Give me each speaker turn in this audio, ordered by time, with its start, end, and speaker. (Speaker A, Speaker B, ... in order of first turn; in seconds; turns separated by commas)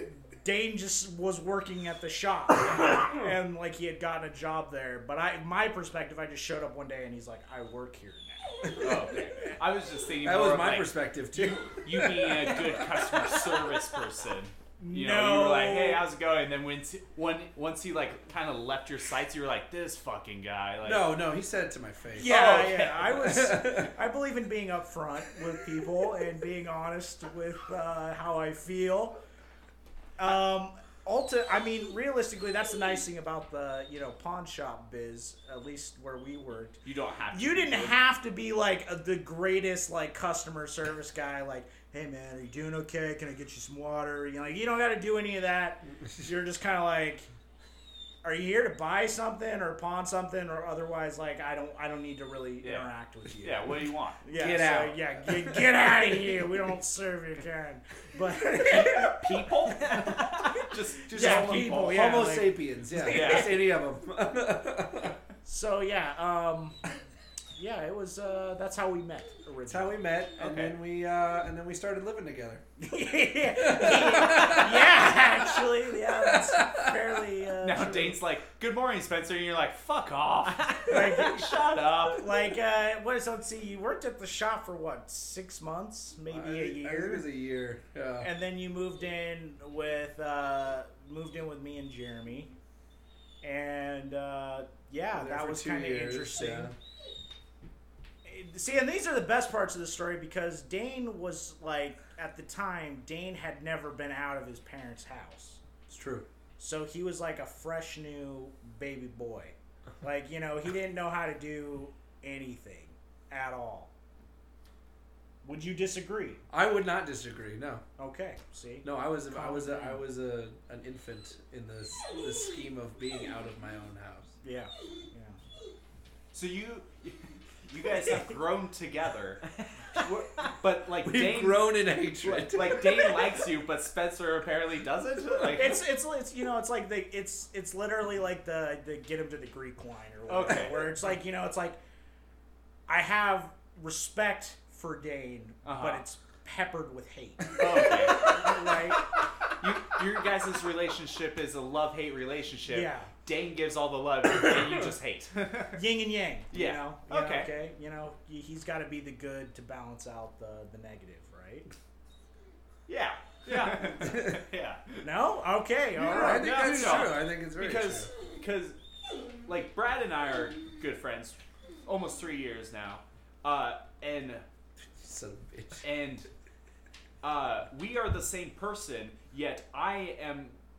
Speaker A: 0.3-8.9, Speaker B: 8.8-21.1, Speaker C: 10.2-13.3, Speaker A: 14.8-16.1, Speaker C: 20.8-24.0, Speaker A: 22.1-29.2, Speaker B: 22.2-23.2, Speaker A: 30.2-36.8, Speaker B: 36.8-38.0, Speaker A: 37.3-47.3, Speaker A: 48.2-60.6, Speaker B: 52.6-54.2, Speaker C: 54.3-55.6, Speaker B: 58.6-62.1, Speaker C: 61.1-65.2, Speaker A: 61.1-63.4, Speaker B: 63.0-63.6, Speaker A: 65.4-66.8, Speaker A: 67.5-70.0, Speaker C: 69.7-72.6, Speaker B: 70.4-70.8, Speaker A: 72.8-78.2, Speaker C: 73.5-77.1, Speaker B: 77.6-82.3, Speaker A: 80.9-87.2, Speaker C: 86.3-88.3, Speaker A: 88.2-92.5, Speaker A: 93.4-96.7, Speaker C: 95.1-96.7, Speaker A: 98.2-105.6, Speaker C: 105.9-106.3, Speaker A: 106.6-113.9, Speaker A: 115.4-116.4, Speaker C: 116.5-117.8, Speaker A: 118.0-120.0, Speaker C: 118.8-124.3, Speaker A: 124.4-125.4, Speaker B: 126.3-129.4, Speaker B: 129.9-135.8, Speaker C: 131.0-133.2, Speaker A: 135.5-141.8, Speaker B: 140.3-140.9, Speaker A: 142.9-149.0, Speaker B: 145.6-146.0, Speaker B: 147.6-148.8, Speaker B: 149.6-155.8, Speaker A: 152.7-153.1, Speaker A: 155.7-161.7, Speaker B: 156.5-157.5, Speaker B: 162.9-165.0, Speaker C: 164.0-164.4, Speaker A: 165.0-167.0, Speaker C: 166.0-168.1, Speaker B: 166.0-168.8, Speaker B: 169.4-174.4, Speaker C: 175.0-175.8, Speaker B: 175.8-176.3, Speaker B: 177.2-180.6